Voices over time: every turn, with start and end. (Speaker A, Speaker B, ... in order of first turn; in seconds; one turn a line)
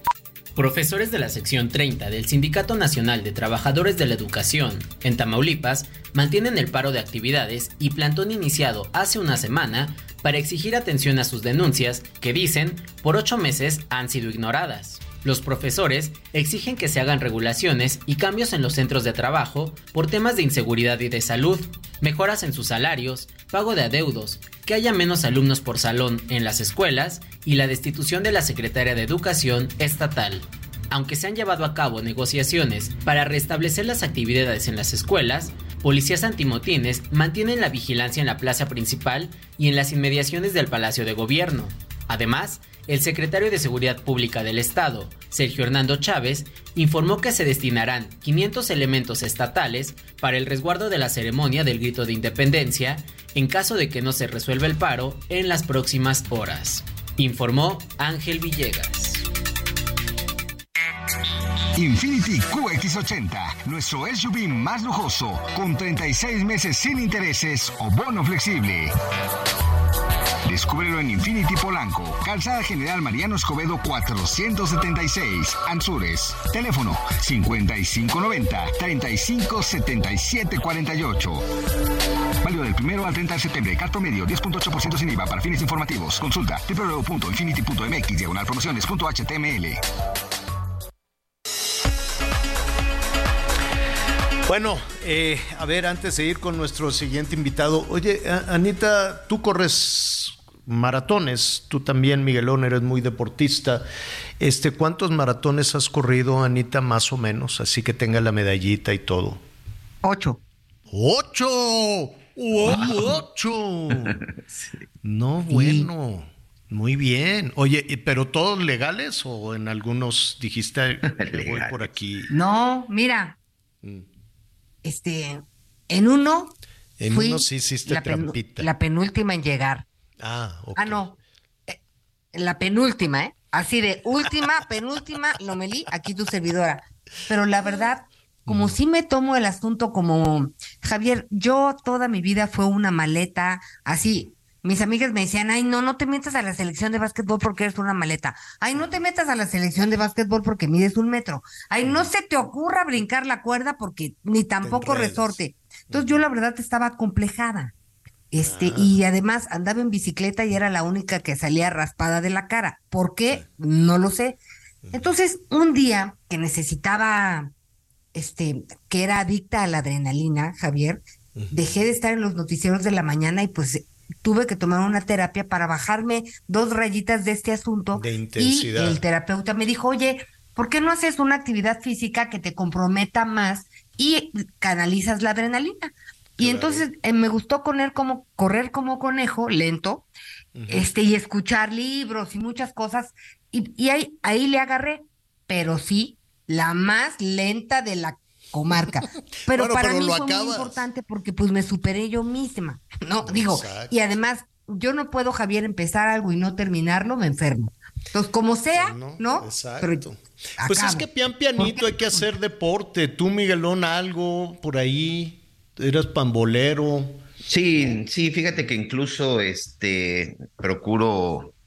Speaker A: 0.6-59.2
Speaker B: 61.7-68.9
Speaker B: 70.4-81.4
Speaker B: 82.4-89.8
Speaker C: 94.5-103.8
Speaker C: 104.4-109.4
Speaker D: 110.0-110.4
Speaker C: 110.9-114.2
Speaker E: 112.7-113.0
Speaker C: 115.0-122.3
Speaker D: 115.5-115.9
Speaker E: 121.0-121.9
Speaker D: 122.3-123.4
Speaker D: 124.8-126.5
Speaker C: 127.0-128.7
Speaker D: 127.1-129.8
Speaker C: 130.2-131.1
Speaker D: 130.8-131.1
Speaker D: 132.3-157.7
Speaker C: 138.5-138.8
Speaker C: 151.8-152.1
Speaker C: 154.6-155.4
Speaker C: 155.9-156.2
Speaker D: 158.3-164.4
Speaker C: 158.4-158.9
Speaker D: 164.9-167.5
Speaker D: 168.1-190.1
Speaker C: 177.9-179.0
Speaker C: 186.4-186.8
Speaker C: 190.5-190.9
Speaker D: 190.7-210.0
Speaker C: 199.4-200.8
Speaker C: 203.2-203.9
Speaker C: 208.7-217.2
Speaker D: 210.6-211.1
Speaker D: 211.6-212.2
Speaker E: 217.5-221.5